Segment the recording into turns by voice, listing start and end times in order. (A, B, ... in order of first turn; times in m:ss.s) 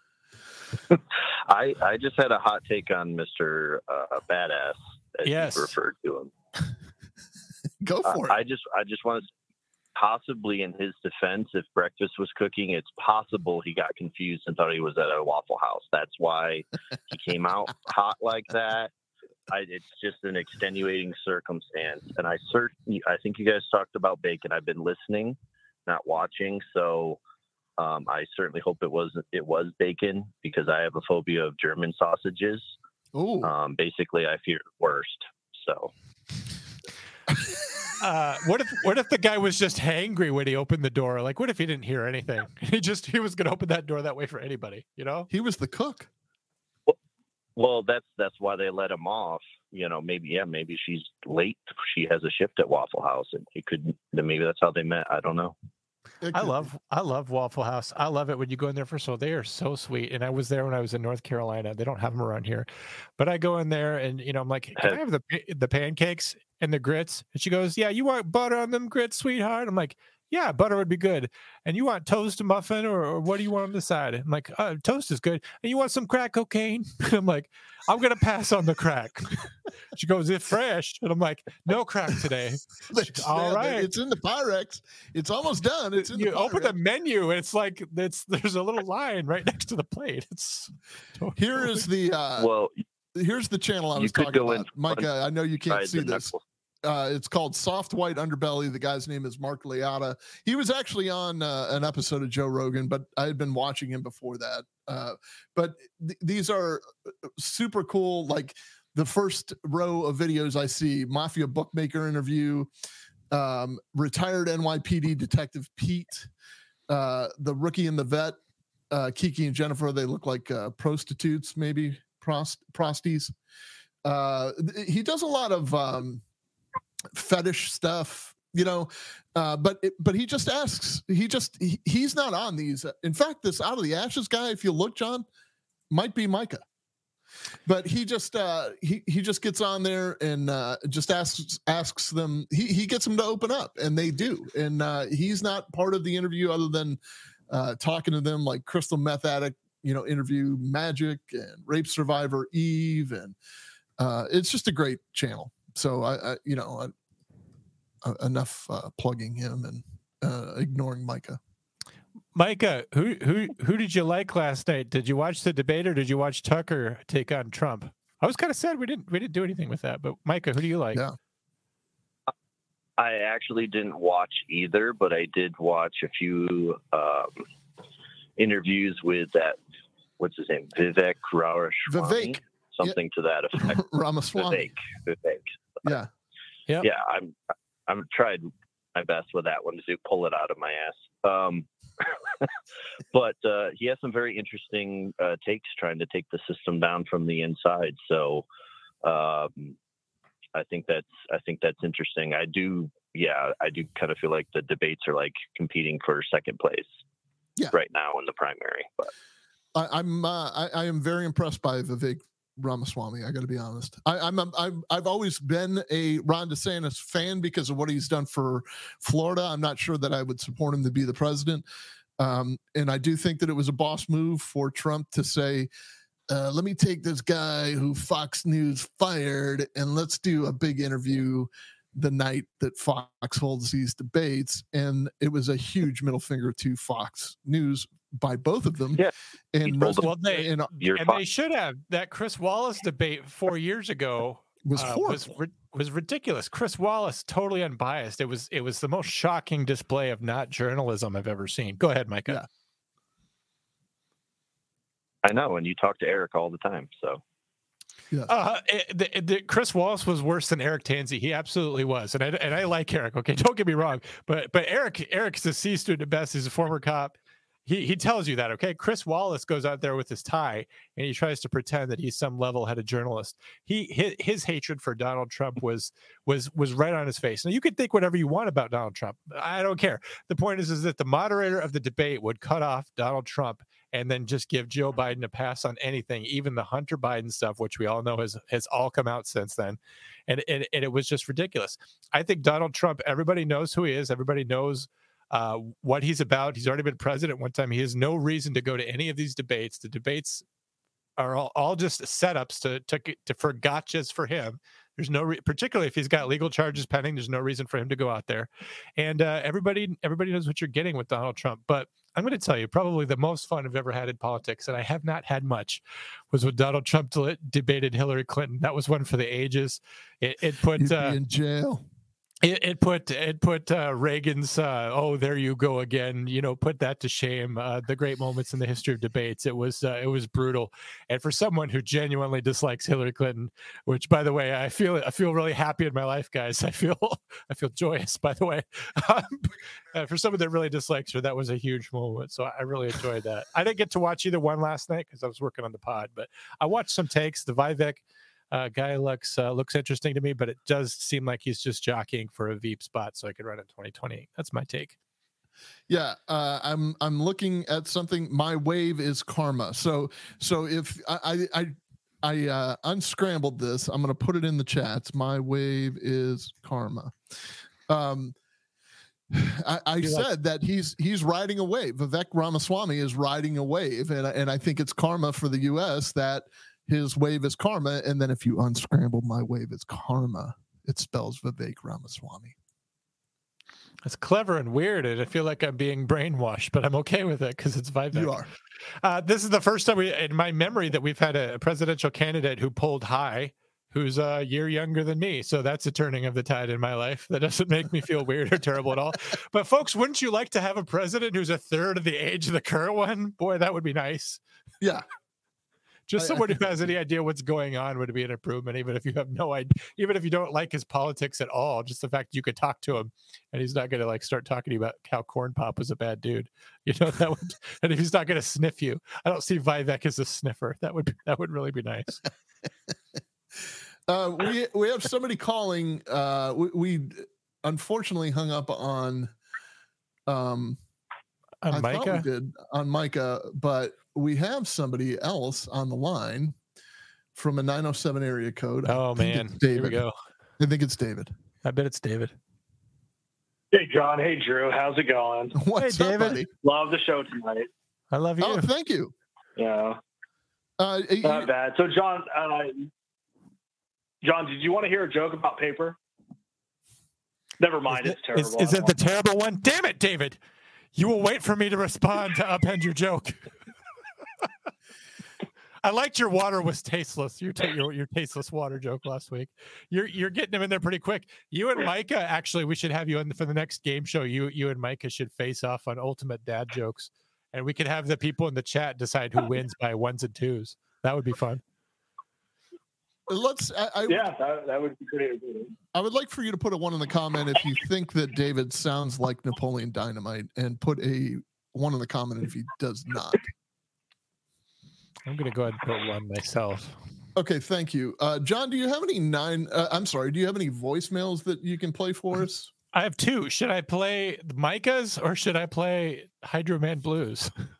0:01.5-0:06.3 A
0:05.2-0:05.7 B
0:07.8-0:08.4 C
0:08.0-0:09.3 A
0:10.0-0:18.9 A
0:19.5-0:27.2 A
0:27.8-0:32.7 A
0:33.1-0:33.5 C
0:33.4-0:35.9 A
0:38.0-0:45.3 B
0:45.3-0:46.1 C
0:47.6-0:55.5 A
0:56.2-0:56.7 C
0:56.3-1:19.4 B
1:19.9-1:23.9 B
1:22.9-1:26.7 C
1:26.1-1:31.9 B
1:31.4-1:32.5 C
1:32.4-1:32.7 A
1:33.1-1:36.3 C
1:34.0-1:35.0 A
1:35.7-1:36.4 A
1:36.8-1:46.8 C
1:47.4-1:52.7 C
1:53.3-1:56.3 C
1:56.9-1:58.4 C
1:58.9-2:03.3 C
2:04.0-2:06.2 C
2:07.1-2:15.2 C
2:15.9-2:16.6 C
2:17.6-2:27.0 C
2:27.5-2:33.4 C
2:34.0-2:36.9 C
2:38.0-2:41.4 C
2:42.3-2:51.0 B
2:53.0-2:57.4 A
2:58.4-2:59.6 A
3:00.2-3:03.8 A
3:01.9-3:03.0 C
3:03.6-3:04.7 C
3:04.3-3:05.9 A
3:05.8-3:06.1 C
3:06.8-3:11.7 A
3:13.1-3:18.4 A
3:19.0-3:19.8 A
3:20.5-3:26.9 A
3:27.7-3:29.1 A
3:29.7-3:41.6 C
3:42.2-3:45.7 C
3:46.3-4:00.7 C
3:59.6-4:01.2 A
3:59.9-4:12.4 B
4:04.6-4:05.3 C
4:15.2-4:17.2 A
4:18.3-5:00.4 B
5:01.2-5:21.2 B
5:20.7-5:21.8 C
5:22.4-5:55.0 B
5:55.9-6:07.2 C
6:07.9-6:08.3 C
6:09.3-6:22.6 C
6:10.0-6:10.3 B
6:24.0-6:28.4 B
6:28.1-6:28.5 C
6:29.0-6:44.4 B
6:46.1-7:02.2 B
6:46.2-6:46.6 C
7:04.1-7:09.3 C
7:10.3-7:10.8 C
7:11.6-7:12.3 B
7:11.7-7:16.6 C
7:17.3-7:20.0 C
7:18.8-7:20.1 B
7:20.6-7:21.3 C
7:21.6-7:22.3 B
7:23.7-7:25.5 D
7:25.5-7:26.5 C
7:25.8-7:26.4 B
7:26.6-7:27.7 D
7:28.1-7:28.7 B
7:28.4-7:29.1 C
7:29.6-7:30.0 D
7:30.8-7:31.5 C
7:31.2-7:32.9 D
7:34.2-7:36.0 D
7:37.6-7:39.0 D
7:37.9-7:40.4 B
7:40.9-7:43.5 B
7:45.8-8:01.6 B
8:03.3-8:04.3 C
8:04.0-8:05.7 D
8:05.9-8:13.4 C
8:15.2-8:17.0 B
8:17.4-8:22.7 C
8:22.9-8:27.5 B